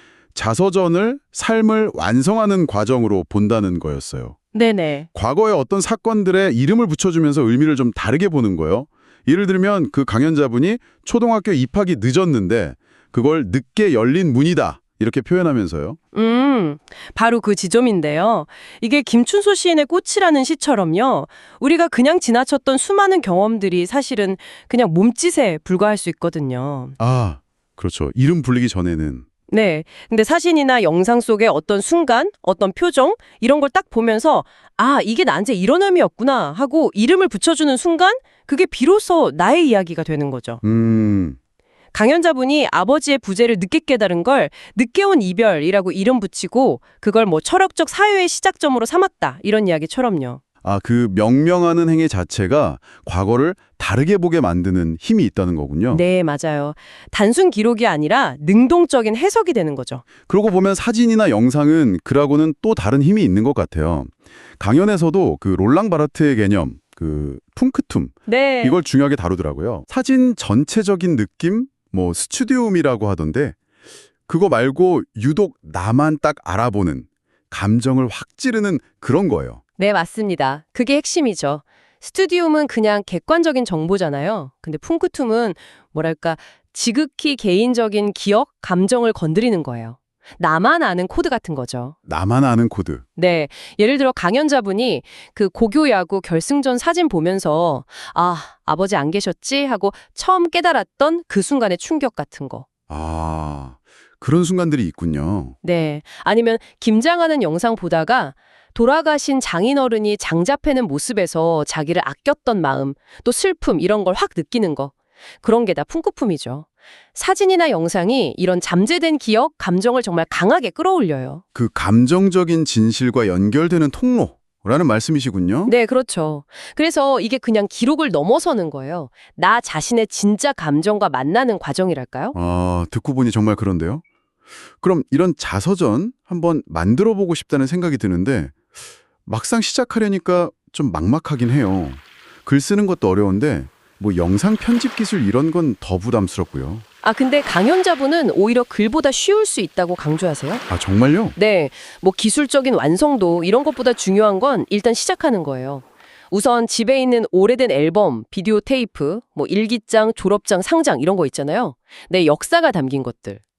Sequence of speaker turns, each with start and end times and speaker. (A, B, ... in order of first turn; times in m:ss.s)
0:00.3-0:04.4 A
0:04.5-0:05.1 B
0:05.1-0:16.0 A
0:16.1-0:27.0 B
0:27.0-0:29.3 A
0:29.5-0:40.6 B
0:40.6-0:41.4 A
0:41.9-0:50.4 B
0:50.6-0:56.0 A
0:55.9-1:00.0 B
1:00.3-1:13.6 A
1:08.3-1:08.8 B
1:14.3-1:19.6 A
1:19.8-1:32.0 B
1:32.1-1:33.0 A
1:33.2-1:42.7 B
1:42.9-1:45.6 A
1:45.6-2:01.4 B
2:01.6-2:05.7 A
2:05.7-2:12.4 B
2:12.3-2:14.0 A
2:14.8-2:18.6 A
2:19.3-2:26.8 A
2:27.0-2:30.6 B
2:30.7-2:31.4 A
2:31.4-2:43.4 B